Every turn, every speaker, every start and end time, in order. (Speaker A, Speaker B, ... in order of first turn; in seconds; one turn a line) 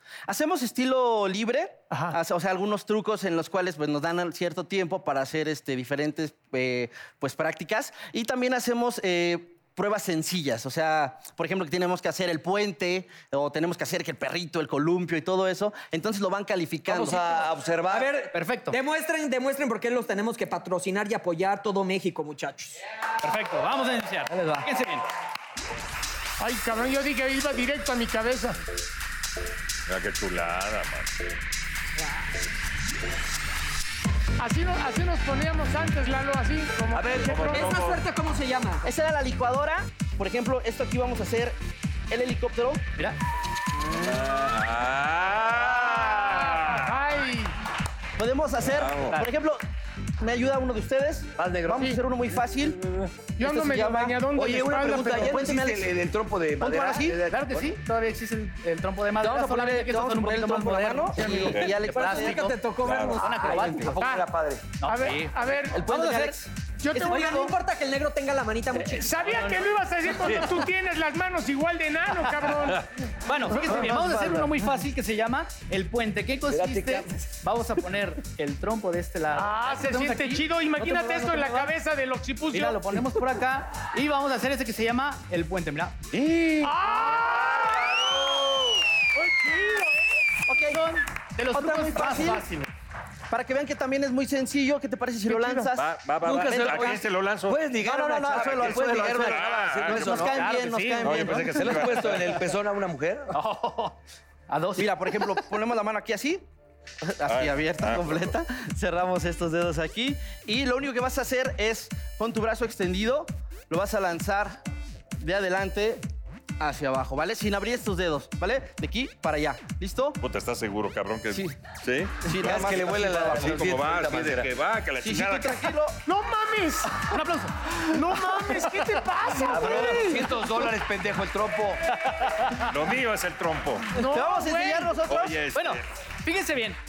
Speaker A: 0.3-17.3
Speaker B: 1.9-2.2
Speaker C: 16.9-18.1
Speaker D: 17.9-22.8
Speaker E: 18.3-18.8
Speaker E: 23.2-25.1
Speaker B: 26.4-28.6
Speaker F: 29.9-31.1
Speaker B: 34.4-37.8
Speaker C: 36.9-37.5
Speaker F: 37.2-38.0
Speaker D: 37.5-38.9
Speaker A: 38.8-41.6
Speaker A: 42.1-42.9
Speaker F: 43.9-47.0
Speaker B: 45.7-47.5
Speaker A: 48.2-49.6
Speaker C: 48.8-49.1
Speaker F: 48.8-49.1
Speaker E: 49.0-49.3
Speaker A: 50.2-52.8
Speaker C: 51.4-52.0
Speaker B: 51.7-52.0
Speaker F: 52.8-53.1
Speaker B: 53.4-55.5
Speaker A: 53.4-54.2
Speaker C: 54.3-57.7
Speaker A: 55.0-55.9
Speaker E: 56.6-62.6
Speaker A: 56.8-57.2
Speaker A: 59.2-62.5
Speaker D: 61.8-63.9
Speaker F: 62.8-63.2
Speaker E: 63.2-64.0
Speaker C: 63.4-64.7
Speaker B: 64.0-64.3
Speaker E: 64.8-66.4
Speaker B: 64.9-66.0
Speaker A: 65.7-66.5
Speaker B: 66.8-67.6
Speaker D: 66.9-69.6
Speaker B: 68.8-72.9
Speaker E: 70.2-70.5
Speaker E: 72.2-72.5
Speaker E: 73.2-81.8
Speaker C: 73.5-74.5
Speaker C: 76.5-77.3
Speaker B: 79.3-83.2
Speaker E: 82.5-86.0
Speaker C: 86.1-86.7
Speaker B: 86.6-88.4
Speaker F: 87.1-88.7
Speaker B: 89.2-90.0
Speaker A: 90.5-90.9
Speaker E: 90.6-92.7
Speaker A: 91.5-92.5
Speaker A: 93.3-97.1
Speaker B: 95.3-95.7
Speaker F: 95.8-97.7
Speaker C: 96.2-100.5
Speaker A: 97.8-101.9
Speaker F: 98.3-100.2
Speaker E: 99.9-101.5
Speaker F: 101.0-102.4
Speaker C: 101.5-103.3
Speaker E: 103.3-104.0
Speaker E: 104.5-105.5
Speaker A: 104.8-106.4
Speaker A: 107.0-114.6
Speaker F: 107.3-108.3
Speaker A: 115.2-116.0
Speaker A: 116.6-120.2
Speaker F: 120.2-122.2
Speaker A: 122.2-123.8
Speaker C: 122.3-124.5
Speaker F: 123.3-125.6
Speaker A: 125.0-126.0
Speaker B: 126.0-127.1
Speaker E: 127.1-128.2
Speaker B: 127.8-130.5
Speaker C: 129.5-131.8
Speaker E: 129.5-130.1
Speaker A: 129.6-130.1
Speaker E: 132.0-132.8
Speaker F: 132.6-134.0
Speaker B: 133.9-135.0
Speaker A: 134.1-135.4
Speaker F: 135.1-135.8
Speaker E: 135.5-136.8